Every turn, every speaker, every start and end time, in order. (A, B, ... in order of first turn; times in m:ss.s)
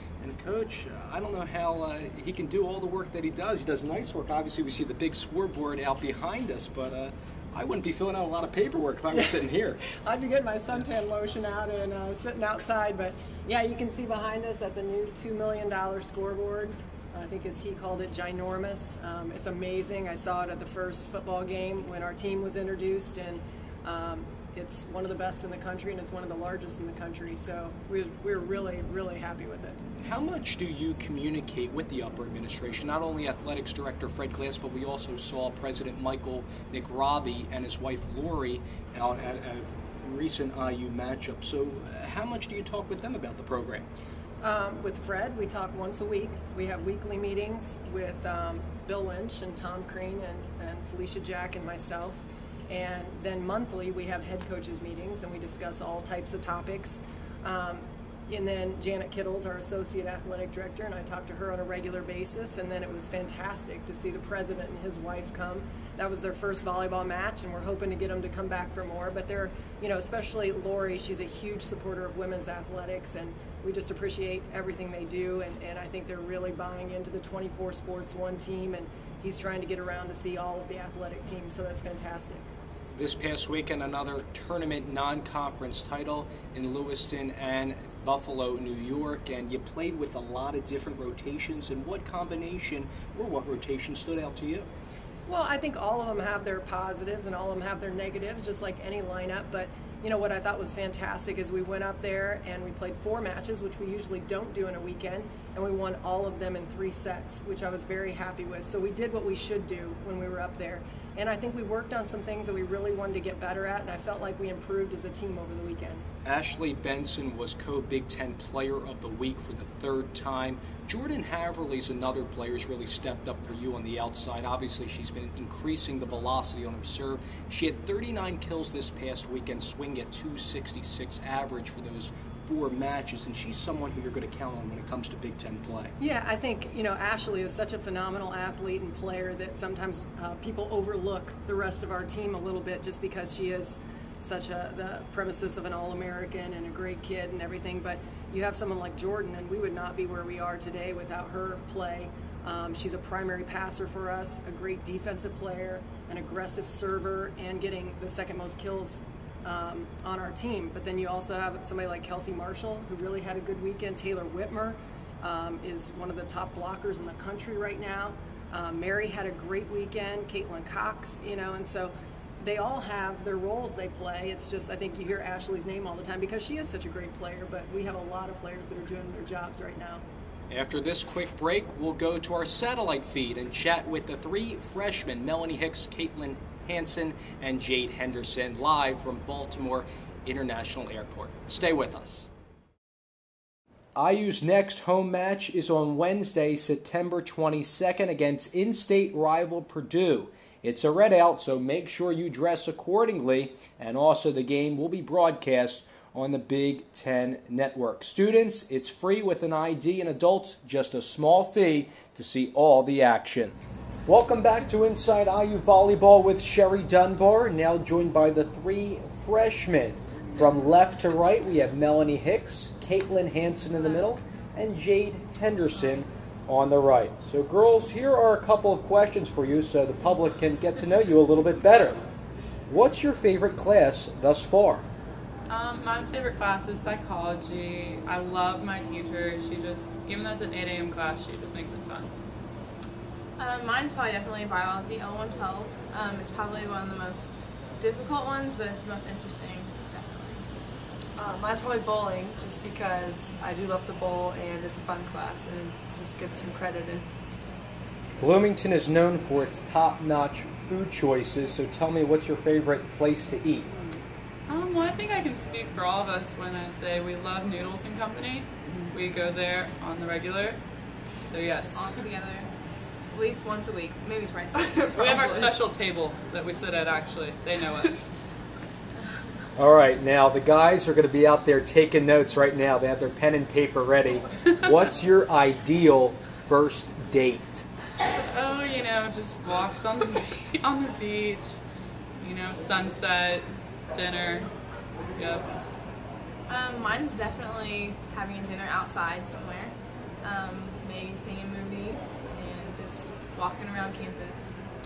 0:00.2-0:10.0 A
0:10.0-0:29.8 B
0:30.0-0:43.8 A
0:44.4-1:22.5 B
1:22.9-1:34.7 A
1:35.3-1:56.0 B
1:56.2-2:15.9 A
2:16.0-3:00.0 B
3:00.5-3:12.3 A
3:13.9-3:52.0 A
3:52.7-3:54.9 A
3:55.5-4:02.1 C
4:03.4-4:10.4 D
4:11.2-4:17.0 E
4:18.2-4:23.7 A
4:24.5-4:30.6 C
4:31.2-4:32.1 C
4:31.7-4:32.5 D
4:33.1-4:35.4 D
4:34.8-4:35.5 E
4:35.0-4:38.2 C
4:39.6-4:47.7 A
4:48.3-4:51.6 C
4:52.2-4:54.5 C
4:55.1-4:55.5 C
4:56.5-5:04.5 D